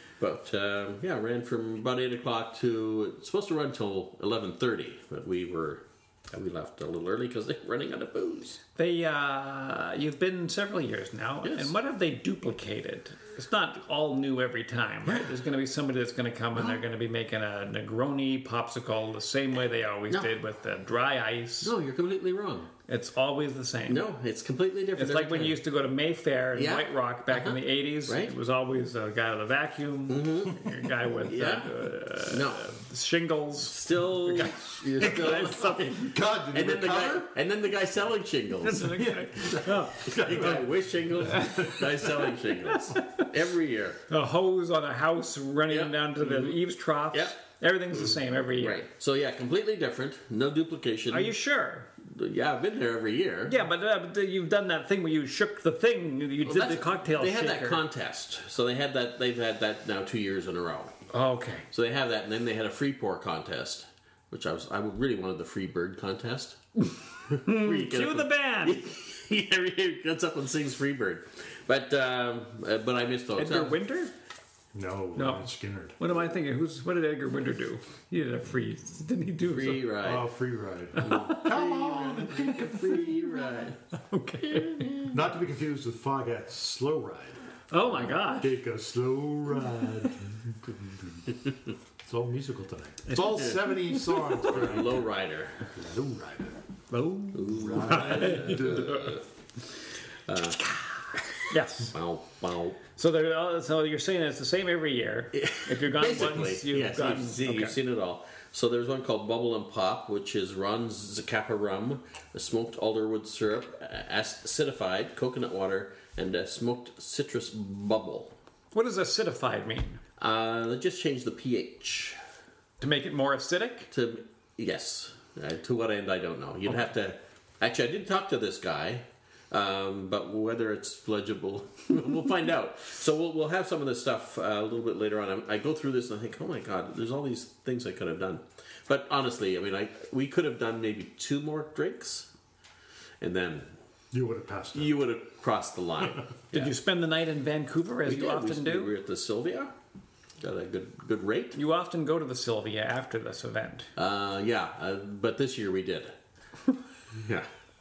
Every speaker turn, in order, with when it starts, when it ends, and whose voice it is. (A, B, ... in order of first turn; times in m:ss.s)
0:00.2-0:08.6 A
0:08.8-0:21.7 B
0:11.4-0:11.7 A
0:21.6-0:22.7 A
0:22.9-0:24.1 B
0:23.9-0:25.6 A
0:25.0-0:35.9 B
0:26.5-0:28.3 A
0:30.1-0:30.7 A
0:31.2-0:32.7 A
0:33.6-0:44.0 A
0:35.8-0:37.3 C
0:38.6-0:40.6 B
0:38.9-0:41.9 C
0:41.2-0:41.8 B
0:42.9-0:43.3 B
0:44.1-0:48.8 B
0:45.7-0:46.6 A
0:48.6-0:51.3 A
0:51.1-0:51.9 B
0:52.0-0:53.6 A
0:53.5-0:57.8 B
0:56.4-1:01.0 A
1:01.1-1:01.6 B
1:01.7-1:06.6 A
1:07.3-1:13.8 A
1:07.4-1:08.8 B
1:13.4-1:14.1 B
1:14.7-1:16.0 C
1:15.2-1:19.9 B
1:19.5-1:20.2 A
1:20.0-1:23.0 C
1:21.0-1:23.8 A
1:21.0-1:21.5 B
1:23.9-1:25.2 B
1:24.5-1:24.9 A
1:25.1-1:27.4 C
1:27.7-1:28.6 B
1:28.3-1:31.2 C
1:32.0-1:35.0 C
1:33.1-1:34.4 B
1:34.4-1:35.7 A
1:35.6-1:36.6 C
1:36.9-1:39.1 B
1:37.3-1:39.2 A
1:37.5-1:39.1 C
1:40.2-1:40.7 A
1:41.4-1:41.9 B
1:41.8-1:42.8 A
1:43.0-1:47.8 B
1:45.3-1:58.3 A
1:58.7-2:00.0 B
2:00.2-2:02.2 A
2:02.8-2:03.9 B
2:03.9-2:22.3 A
2:23.2-2:23.7 A
2:24.1-2:25.0 C
2:24.7-2:26.7 A
2:26.5-2:28.9 B
2:28.0-2:29.7 A
2:30.4-2:31.6 A
2:31.5-2:33.9 B
2:34.0-2:36.2 A
2:37.1-2:37.5 A